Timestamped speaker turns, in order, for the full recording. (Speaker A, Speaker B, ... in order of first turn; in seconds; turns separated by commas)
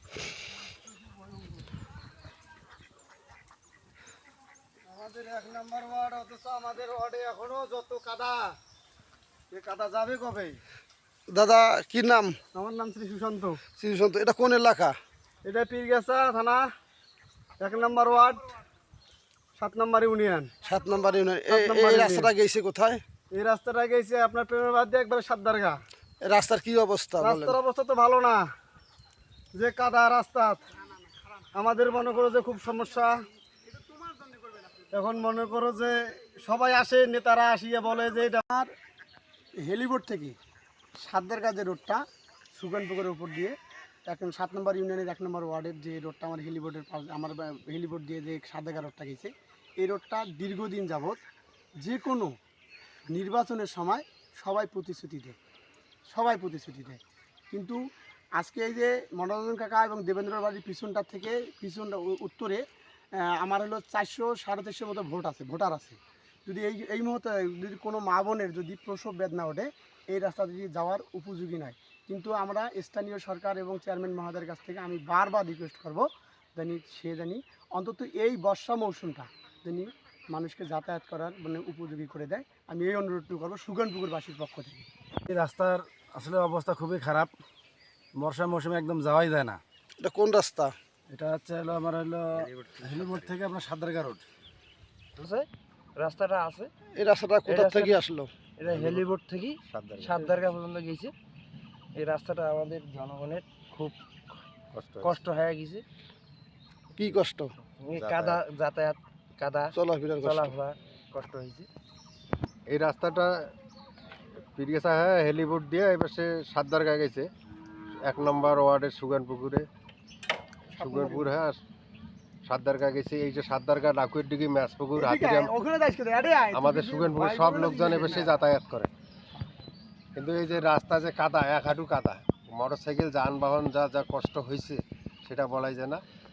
Speaker A: 4.9-8.5, Speaker A: 9.5-10.6, Speaker B: 11.3-12.4, Speaker A: 12.5-13.6, Speaker B: 13.8-14.9, Speaker A: 15.4-16.6, Speaker A: 17.6-18.4, Speaker A: 19.6-20.5, Speaker B: 20.6-23.0, Speaker A: 21.5-22.3, Speaker A: 23.3-25.8, Speaker B: 26.2-27.6, Speaker A: 27.2-28.4, Speaker A: 29.5-30.7, Speaker A: 31.5-33.1, Speaker A: 34.8-38.7, Speaker A: 39.6-40.4, Speaker A: 41.0-42.0, Speaker A: 42.5-43.5, Speaker A: 44.0-51.2, Speaker A: 51.8-52.3, Speaker A: 53.1-55.4, Speaker A: 56.1-57.0, Speaker A: 57.5-57.8, Speaker A: 58.4-62.6, Speaker A: 63.2-84.8, Speaker C: 85.3-87.3, Speaker C: 88.1-89.6, Speaker B: 90.0-90.7, Speaker C: 91.1-94.2, Speaker D: 92.3-93.4, Speaker E: 95.2-96.7, Speaker B: 96.9-98.3, Speaker E: 97.5-98.0, Speaker E: 98.6-101.1, Speaker D: 98.6-99.1, Speaker D: 99.7-100.5, Speaker E: 101.9-104.0, Speaker D: 104.7-105.2, Speaker E: 105.0-105.8, Speaker B: 107.0-107.5, Speaker E: 107.8-111.7, Speaker D: 107.9-108.4, Speaker B: 109.7-110.5, Speaker D: 112.7-113.3, Speaker D: 114.5-117.3, Speaker D: 118.0-119.7, Speaker A: 120.7-121.3, Speaker D: 120.8-121.6, Speaker D: 122.5-125.5, Speaker A: 124.9-128.4, Speaker D: 126.5-128.9, Speaker D: 130.2-136.0